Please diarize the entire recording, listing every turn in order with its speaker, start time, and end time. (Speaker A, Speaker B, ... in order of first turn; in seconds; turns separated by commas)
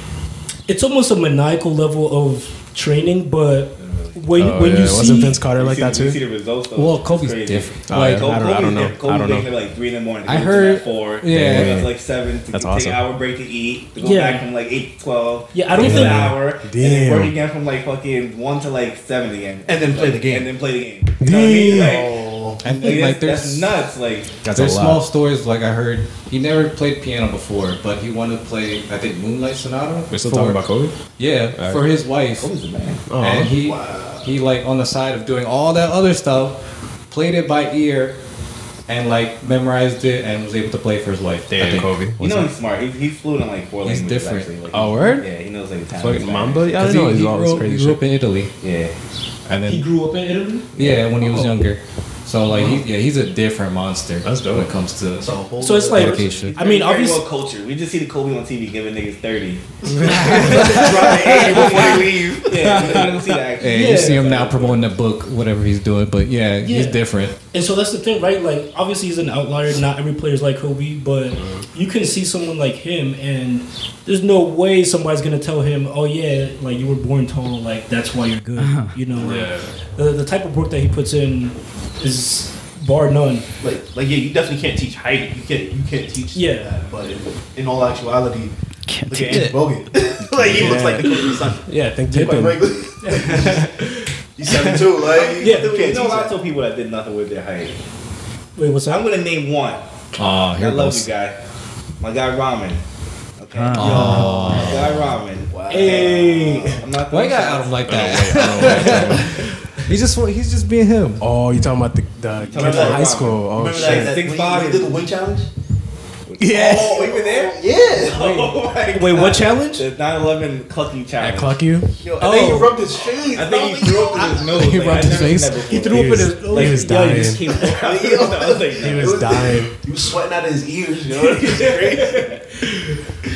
Speaker A: 0.7-5.4, Speaker B: 3.8-4.2, Speaker C: 4.3-6.2, Speaker B: 5.5-24.4, Speaker D: 6.7-8.3, Speaker C: 7.9-9.5, Speaker D: 10.2-11.8, Speaker C: 11.3-11.9, Speaker C: 12.5-13.0, Speaker A: 14.0-14.5, Speaker A: 15.5-16.3, Speaker C: 15.7-17.3, Speaker E: 19.7-20.5, Speaker C: 21.2-22.1, Speaker E: 21.5-22.6, Speaker D: 22.6-23.7, Speaker C: 24.4-25.0, Speaker D: 24.5-32.5, Speaker C: 30.1-30.9, Speaker C: 31.6-31.8, Speaker B: 32.4-33.0, Speaker C: 33.1-33.5, Speaker D: 33.2-38.2, Speaker E: 33.5-34.3, Speaker D: 38.9-41.9, Speaker C: 41.5-42.5, Speaker B: 42.2-46.9, Speaker D: 43.8-44.5, Speaker C: 44.7-45.3, Speaker C: 45.9-48.0, Speaker D: 46.8-48.5, Speaker B: 48.6-48.9, Speaker D: 49.5-49.9, Speaker A: 49.7-50.7, Speaker D: 50.8-55.3, Speaker B: 50.8-51.1, Speaker C: 54.2-54.7, Speaker E: 55.2-56.5, Speaker A: 55.6-57.2, Speaker D: 55.9-56.5, Speaker B: 56.5-64.9, Speaker C: 59.9-60.9, Speaker E: 59.9-63.1, Speaker C: 61.6-62.0, Speaker C: 62.7-63.1, Speaker D: 63.6-67.3, Speaker A: 63.7-64.2, Speaker A: 66.6-67.0, Speaker A: 67.5-83.5, Speaker C: 71.4-71.6, Speaker F: 78.6-78.9, Speaker C: 79.2-79.7, Speaker E: 83.6-88.5, Speaker A: 86.3-86.7, Speaker F: 88.9-89.6, Speaker E: 89.1-93.8, Speaker C: 90.4-92.7, Speaker A: 92.1-92.4, Speaker A: 93.0-93.8, Speaker E: 94.4-96.3, Speaker B: 95.0-97.8, Speaker A: 95.4-95.8, Speaker A: 98.5-99.0, Speaker B: 98.9-99.8, Speaker D: 100.2-101.1, Speaker B: 100.5-101.4, Speaker B: 102.0-102.8, Speaker B: 103.4-109.3, Speaker F: 103.5-104.5, Speaker D: 103.8-105.2, Speaker E: 103.8-104.5, Speaker E: 105.5-106.2, Speaker A: 105.7-106.8, Speaker D: 107.1-111.2, Speaker C: 107.8-109.3, Speaker C: 111.2-114.2, Speaker B: 112.4-115.1, Speaker E: 112.5-115.5, Speaker B: 116.3-121.6, Speaker C: 116.4-116.9, Speaker E: 116.5-118.6, Speaker A: 118.9-119.8, Speaker C: 121.2-121.9, Speaker E: 121.9-125.0, Speaker A: 122.2-122.7, Speaker B: 123.3-129.2, Speaker C: 124.5-127.4, Speaker A: 125.7-127.7, Speaker E: 127.5-132.4, Speaker C: 128.8-129.8, Speaker B: 131.2-132.4